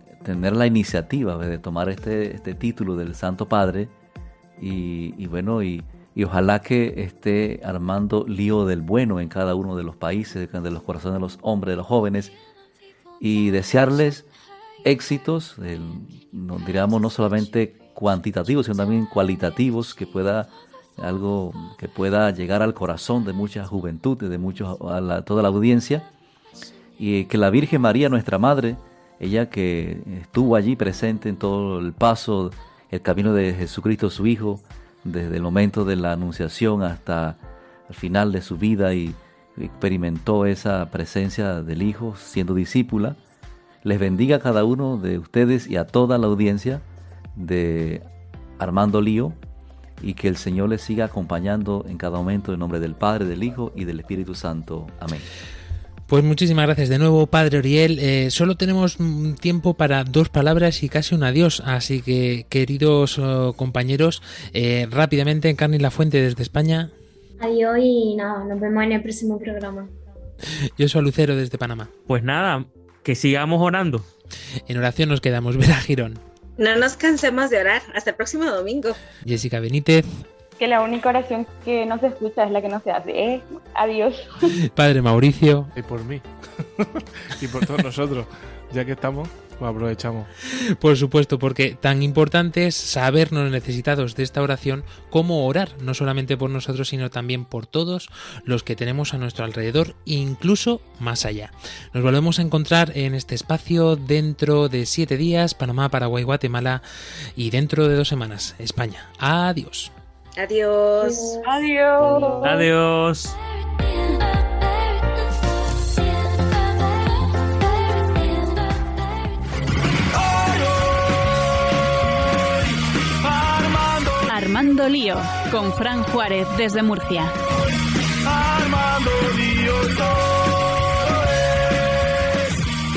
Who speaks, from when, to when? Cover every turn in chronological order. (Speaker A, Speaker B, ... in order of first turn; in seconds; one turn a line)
Speaker A: 0.2-3.9
Speaker A: 4.6-12.3
Speaker A: 13.2-14.3
Speaker A: 14.8-26.1
Speaker A: 27.0-43.2
Speaker A: 43.8-46.8
Speaker A: 47.4-48.0
Speaker A: 48.6-49.4
Speaker A: 50.0-55.3
Speaker B: 56.1-66.9
Speaker C: 67.4-69.9
Speaker B: 70.8-71.9
Speaker D: 72.1-74.1
Speaker B: 74.7-76.2
Speaker E: 76.6-79.0
Speaker B: 79.2-80.2
Speaker F: 80.6-84.3
Speaker B: 84.7-85.7
Speaker G: 85.8-86.2
Speaker G: 86.8-90.3
Speaker B: 90.5-106.8
Speaker B: 107.4-109.9
Speaker E: 110.4-111.5
Speaker C: 111.0-111.4
Speaker F: 111.4-112.6
Speaker C: 112.0-112.5
Speaker D: 112.4-113.3
Speaker H: 120.1-122.7
Speaker H: 123.2-124.3
Speaker I: 124.3-127.3
Speaker H: 128.2-132.6